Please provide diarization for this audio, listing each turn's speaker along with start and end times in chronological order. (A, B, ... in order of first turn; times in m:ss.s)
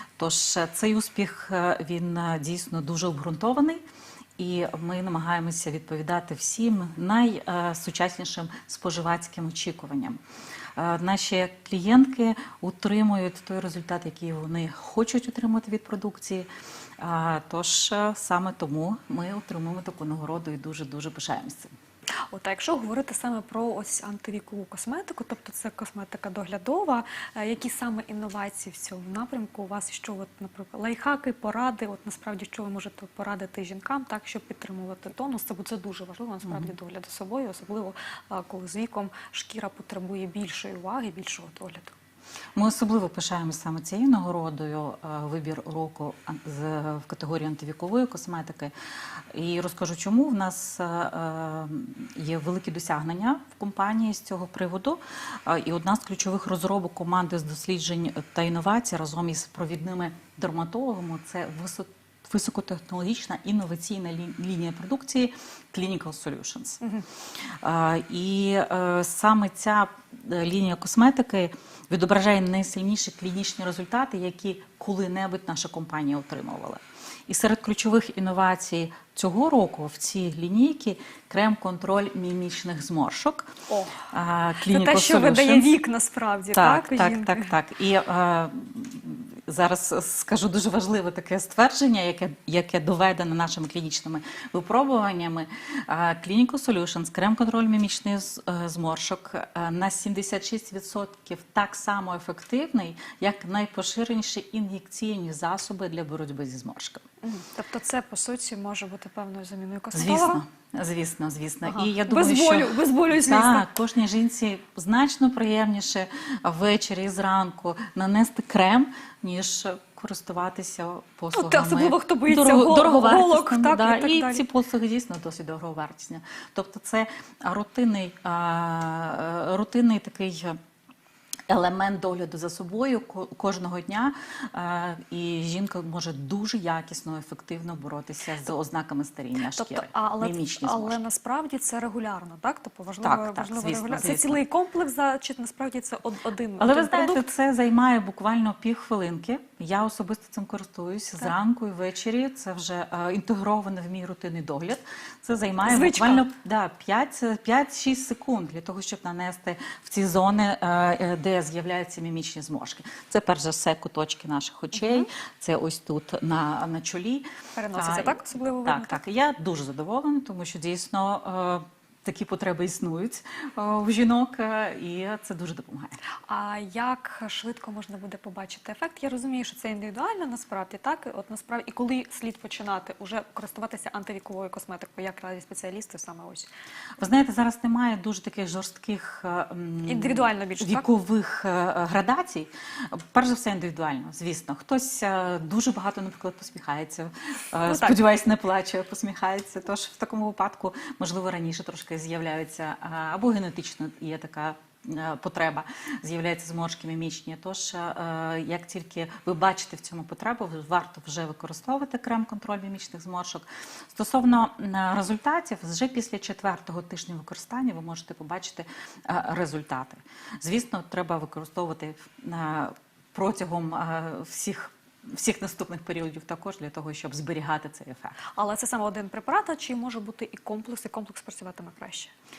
0:00.2-0:03.8 A
0:04.4-0:10.2 A
0:10.8-0:16.5 A
0:17.0-0:21.7 A
0:22.3-0:42.0 B
0:42.6-0:48.7 A
0:49.3-1:06.8 A
1:06.8-1:07.1 B
1:07.4-1:23.5 A
1:23.7-1:24.1 B
1:24.1-1:25.8 A
1:24.7-1:27.6 B
1:26.5-1:47.0 A
1:47.2-1:50.4 B
1:49.9-2:10.6 A
1:51.6-1:53.7 B
2:01.3-2:04.4 B
2:11.5-2:21.0 A
2:19.4-2:27.3 B
2:23.0-2:24.4 A
2:26.6-2:56.0 A
2:35.6-2:36.3 B
2:44.7-2:45.1 B
2:47.6-2:49.0 B
2:56.3-3:06.5 B
3:07.0-3:48.2 A
3:09.8-3:10.9 B
3:17.6-3:18.0 B
3:48.3-3:52.1 B